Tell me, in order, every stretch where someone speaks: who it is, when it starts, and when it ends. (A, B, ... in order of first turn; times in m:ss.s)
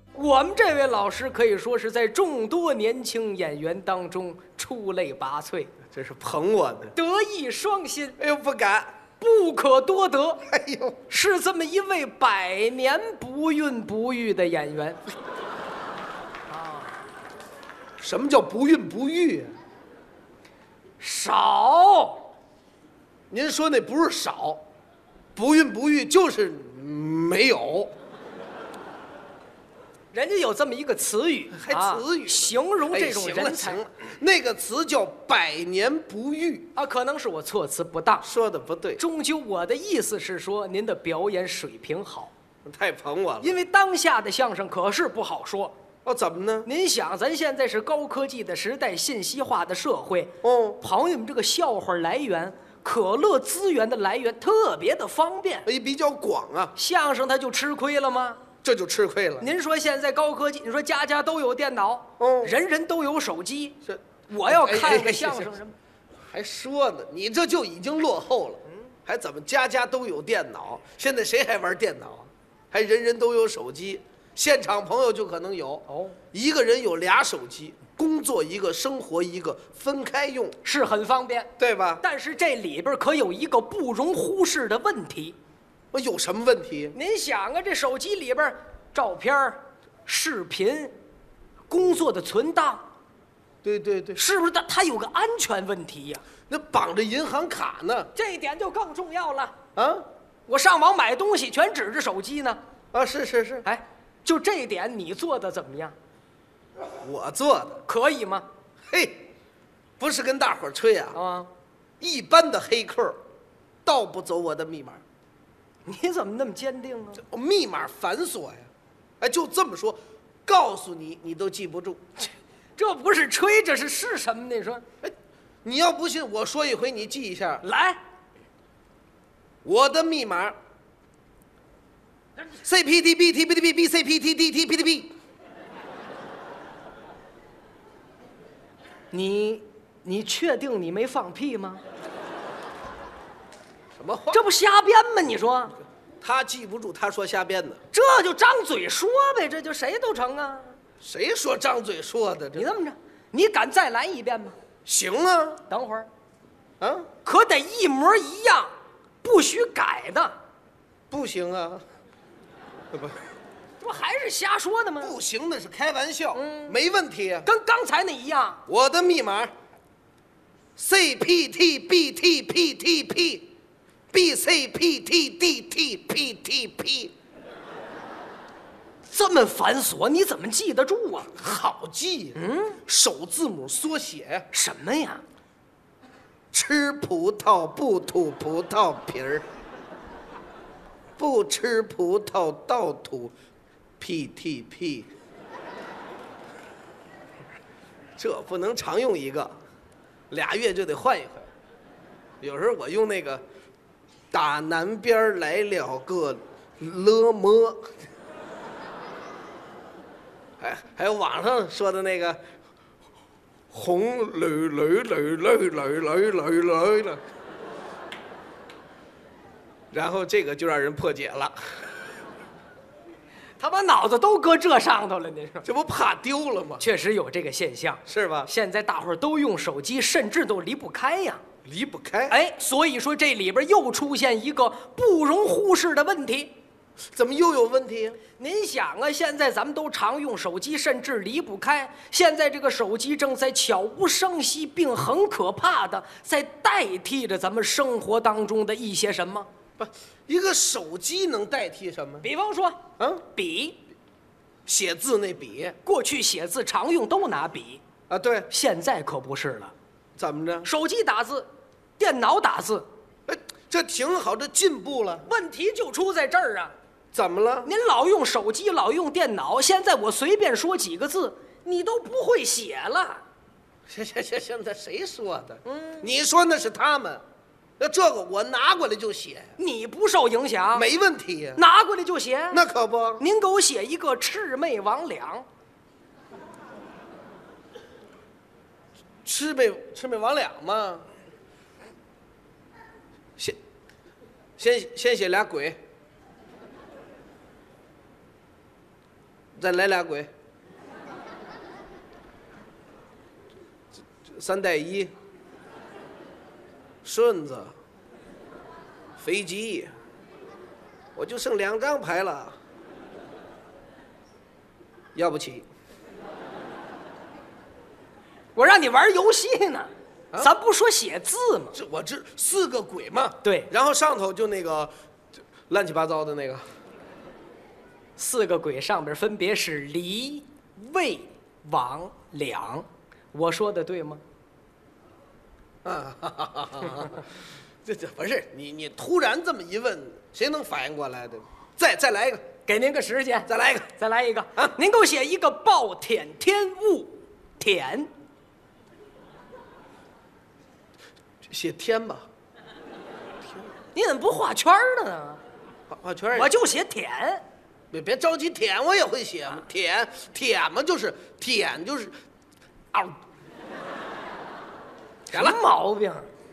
0:00.1-0:05.7 A
0:05.8-0:06.9 B
0:07.0-0:08.2 A
0:08.2-0:09.0 B
0:09.2-0:10.4 A
0:10.5-0:11.0 B
0:11.1-0:15.0 A
0:16.5-0:16.9 A
0:18.0-0:19.5 B
0:21.0-0:22.3 A
0:23.3-0:24.6 B
0:25.4-0:27.9 B
0:30.1-0:33.9 A
0:31.5-0:36.7 B
0:36.7-0:38.2 A
0:38.2-0:39.0 B
0:39.0-0:42.3 A
0:42.6-0:43.5 B
0:43.4-0:45.7 A
0:46.0-0:46.7 B
0:46.6-0:55.7 A
0:50.4-0:50.8 B
0:55.6-0:56.7 B
0:56.8-0:58.4 A
0:58.6-0:59.5 B
0:59.4-1:03.8 A
1:02.2-1:02.5 B
1:03.8-1:05.5 B
1:04.3-1:05.7 A
1:06.3-1:20.6 B
1:15.9-1:16.2 A
1:20.6-1:25.4 A
1:21.6-1:22.0 B
1:25.9-1:26.9 B
1:26.9-1:30.9 A
1:31.7-1:32.8 A
1:33.6-1:34.2 B
1:34.2-1:36.2 A
1:36.5-1:38.1 B
1:38.1-1:39.5 A
1:39.7-1:40.0 B
1:40.5-1:42.6 A
1:42.9-1:43.7 B
1:43.6-1:45.9 A
1:46.8-1:47.8 B
1:47.8-1:48.5 A
1:48.9-1:49.2 B
1:50.0-1:51.2 B
1:51.1-1:51.5 A
1:52.0-1:53.2 B
1:53.8-1:55.0 B
1:55.8-1:57.2 A
1:57.2-1:58.7 B
1:59.2-2:02.0 B
2:02.8-2:04.8 A
2:05.0-2:07.6 B
2:07.6-2:08.0 A
2:09.6-2:10.6 B
2:12.6-2:15.1 B
2:19.1-2:21.8 A
2:24.0-2:24.4 B
2:24.3-2:25.8 A
2:26.2-2:27.8 B
2:27.9-2:30.8 A
2:31.0-2:32.7 B
2:32.5-2:34.6 A
2:34.8-2:35.6 B
2:35.7-2:36.1 A
2:36.8-2:37.1 B
2:37.2-2:38.7 A
2:39.2-2:40.4 A
2:41.1-2:41.8 B
2:43.8-2:45.2 A
2:45.0-2:47.5 B
2:46.3-2:46.8 A
2:47.4-2:48.6 A
2:48.7-2:49.5 B
2:50.8-2:53.5 B
2:54.1-2:57.1 B
2:59.0-3:01.3 A
3:01.3-3:04.5 B
3:02.4-3:02.8 A
3:04.5-3:05.2 A
3:06.5-3:09.4 B
3:11.2-3:13.3 B
3:14.0-3:15.1 B
3:18.2-3:19.5 B
3:20.3-3:21.5 B
3:22.4-3:23.4 B
3:24.3-3:28.0 B
3:30.6-3:32.4 B
3:33.7-3:37.2 B
3:39.9-3:41.8 B
3:43.6-3:45.7 A
3:45.6-3:46.8 B
3:46.8-3:51.4 A
3:48.1-3:48.5 B
3:51.6-3:52.4 B
3:52.3-3:56.5 A
3:57.1-3:58.2 B
3:58.4-4:09.5 A
4:09.8-4:12.3 B
4:12.2-4:12.8 A
4:13.0-4:13.2 B
4:13.3-4:13.8 A
4:14.6-4:15.8 B
4:15.8-4:17.8 A
4:18.1-4:18.5 B
4:18.5-4:19.7 A
4:20.2-4:20.7 B
4:20.6-4:22.9 A
4:23.3-4:25.3 B
4:25.2-4:26.7 A
4:27.1-4:27.7 B
4:27.6-4:33.2 A
4:33.9-4:37.2 B
4:35.7-4:36.1 A
4:37.8-4:39.5 B
4:39.6-4:40.9 A
4:40.7-4:41.6 B
4:41.6-4:42.6 A
4:42.5-4:43.2 B
4:43.2-4:45.4 A
4:49.2-4:51.0 B
4:54.6-4:55.8 B
4:59.6-5:00.3 B
5:04.3-5:05.1 B
5:07.0-5:07.7 B
5:09.2-5:09.9 B
5:11.2-5:12.6 B
5:15.1-5:15.6 B
5:18.5-5:21.8 A
5:21.7-5:24.9 B
5:23.4-5:23.7 A
5:25.7-5:26.6 B
5:28.2-5:34.2 A
5:35.8-5:37.2 B
5:37.8-5:42.5 B
5:42.7-5:48.1 A
5:43.5-5:43.9 B
5:51.5-5:52.3 B
5:53.9-5:55.4 A
5:55.9-5:56.5 B
5:56.3-5:57.4 A
5:57.9-6:02.1 B
6:02.9-6:03.2 B
6:05.3-6:05.6 B
6:05.3-6:06.3 A